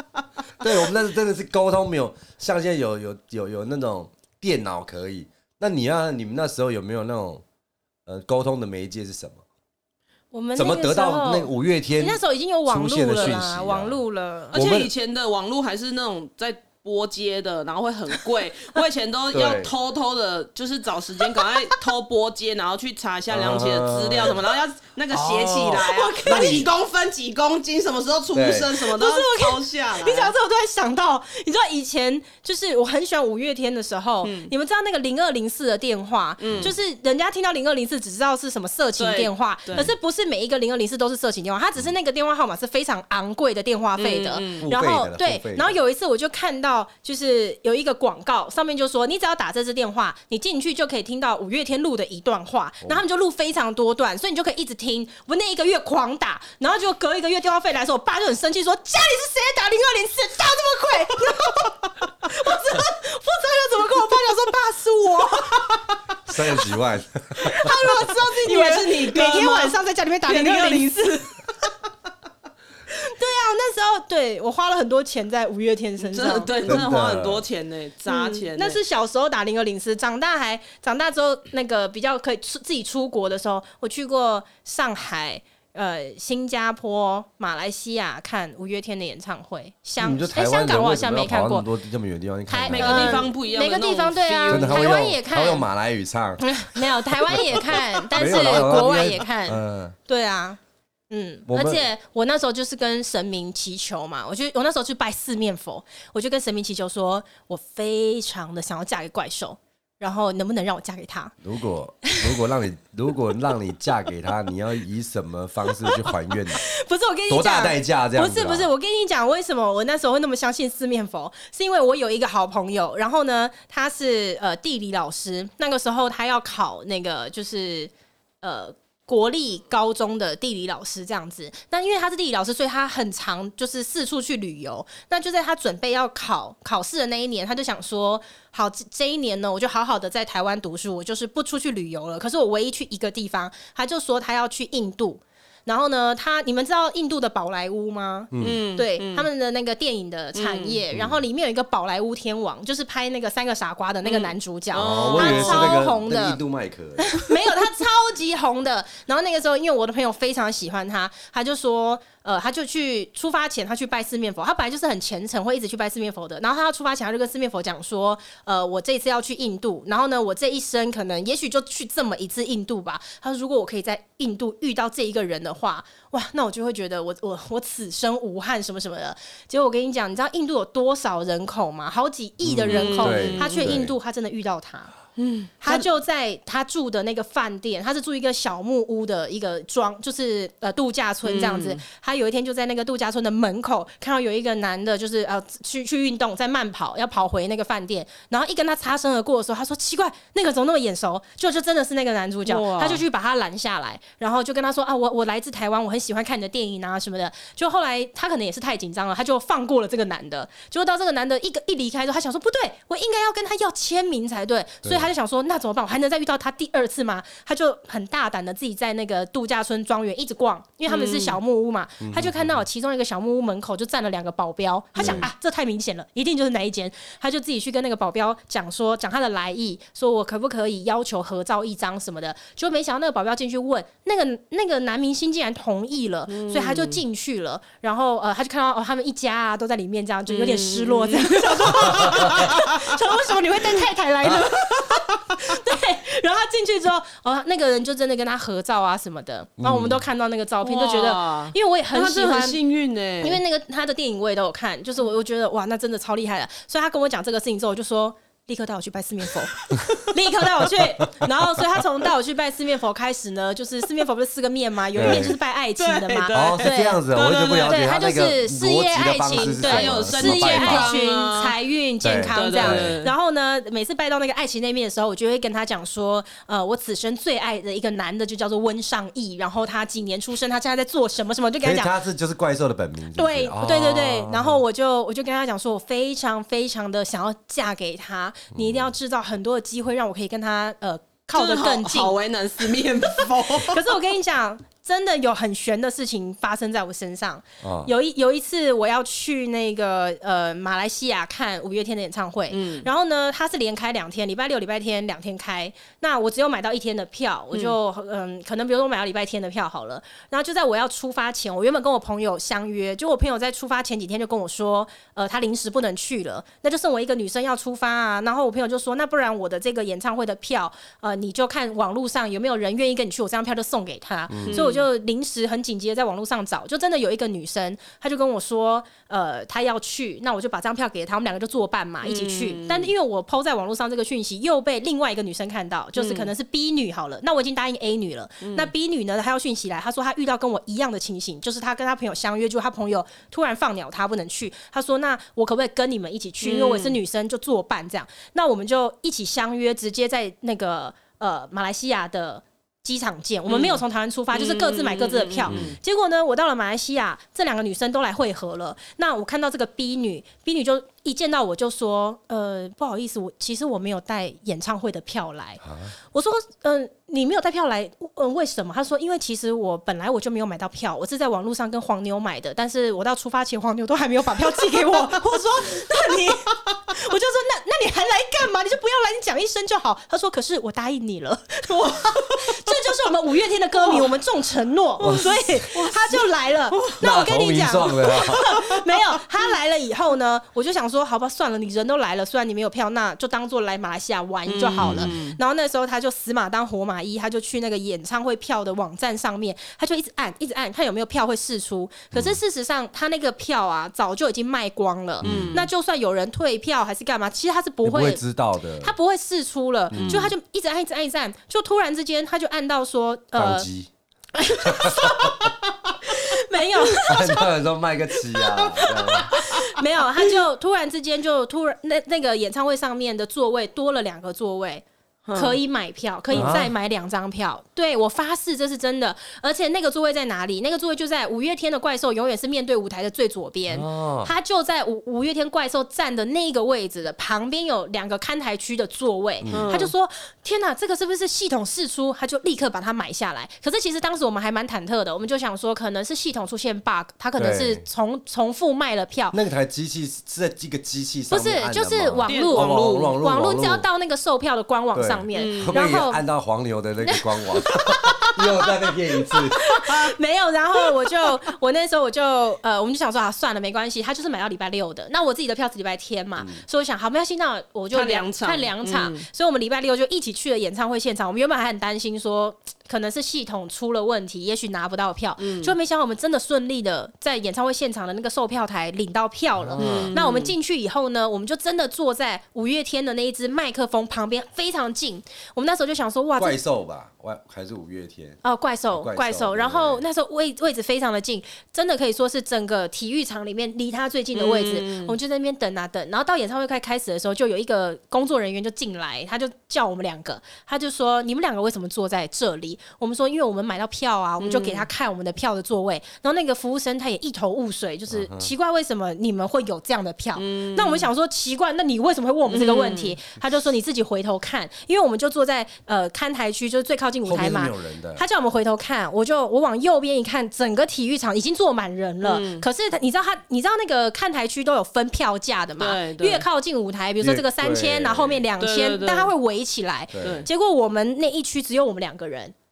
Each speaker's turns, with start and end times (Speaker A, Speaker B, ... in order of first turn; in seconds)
Speaker A: 0.6-7.4, 8.1-9.4, 10.6-14.0, 14.5-14.9, 19.3-19.7, 23.3-24.4, 25.1-25.9, 28.3-28.7, 36.4-36.7, 44.6-45.7, 66.3-67.7, 76.7-77.4, 90.0-93.3, 94.5-99.9, 101.5-101.8, 111.4-116.6, 117.3-118.7, 148.3-148.6, 150.9-151.2, 154.7-157.2, 182.4-183.9, 214.8-215.1, 222.0-222.6, 225.0-225.3, 241.9-242.4, 244.2-244.5, 249.6-250.0, 260.7-261.2, 264.9-265.4, 266.3-270.9, 272.0-273.0, 281.6-284.6, 288.5-288.9, 297.6-297.9, 324.3-324.6, 355.5-355.8, 365.6-365.9, 385.0-385.4, 387.0-388.5, 394.8-395.1, 402.1-402.4, 405.2-405.7, 407.8-408.9, 409.9-410.3, 413.3-413.9, 414.6-415.5, 417.1-419.5, 426.3-426.7, 433.7-434.3, 439.4-439.7, 447.4-447.8, 449.3-453.8, 454.9-459.6, 466.4-466.6, 479.6-480.1, 486.4-490.0, 508.1-508.5, 517.2-518.2, 527.2-528.4, 530.1-530.5
Speaker B: 10.3-14.6, 25.8-26.7, 28.9-66.3, 67.4-71.3, 73.0-76.5, 78.1-91.7, 92.5-95.7, 96.4-100.6, 101.1-111.3, 116.6-127.9, 128.4-156.4, 157.0-184.9, 185.6-252.6, 253.2-267.0, 267.6-281.9, 283.1-292.1, 293.2-408.2, 408.8-413.7, 414.3-415.5, 416.1-417.5, 418.4-449.4, 451.3-456.2, 457.1-486.6, 488.4-532.5
Speaker C: 13.2-13.4, 14.5-30.3, 34.2-34.5, 36.4-36.7, 39.0-39.9, 44.0-44.7, 68.0-71.2, 76.0-78.8, 92.7-94.9, 148.4-149.3, 150.3-150.8, 154.0-155.8, 182.7-183.8, 185.2-185.8, 191.2-191.8, 202.4-203.0, 220.9-221.4, 224.9-225.2, 236.3-237.0, 240.3-242.6, 250.6-253.4, 265.0-267.8, 269.3-271.6, 272.3-273.1, 291.3-293.8, 302.5-302.9, 324.4-324.8, 332.0-332.9, 335.9-336.3, 338.4-338.7, 346.4-347.0, 353.5-355.7, 381.7-382.9, 383.8-384.1, 385.0-387.0, 388.0-389.0, 394.5-395.4, 405.2-405.7, 409.9-410.3, 425.2-425.6, 426.3-426.6, 439.5-439.9, 452.3-453.1, 455.3-455.8, 467.9-469.2, 475.4-475.7, 479.8-480.5, 494.3-495.1, 504.4-504.9, 510.4-511.1, 512.5-513.2, 522.2-522.6, 525.8-526.4, 528.6-529.3, 530.2-530.5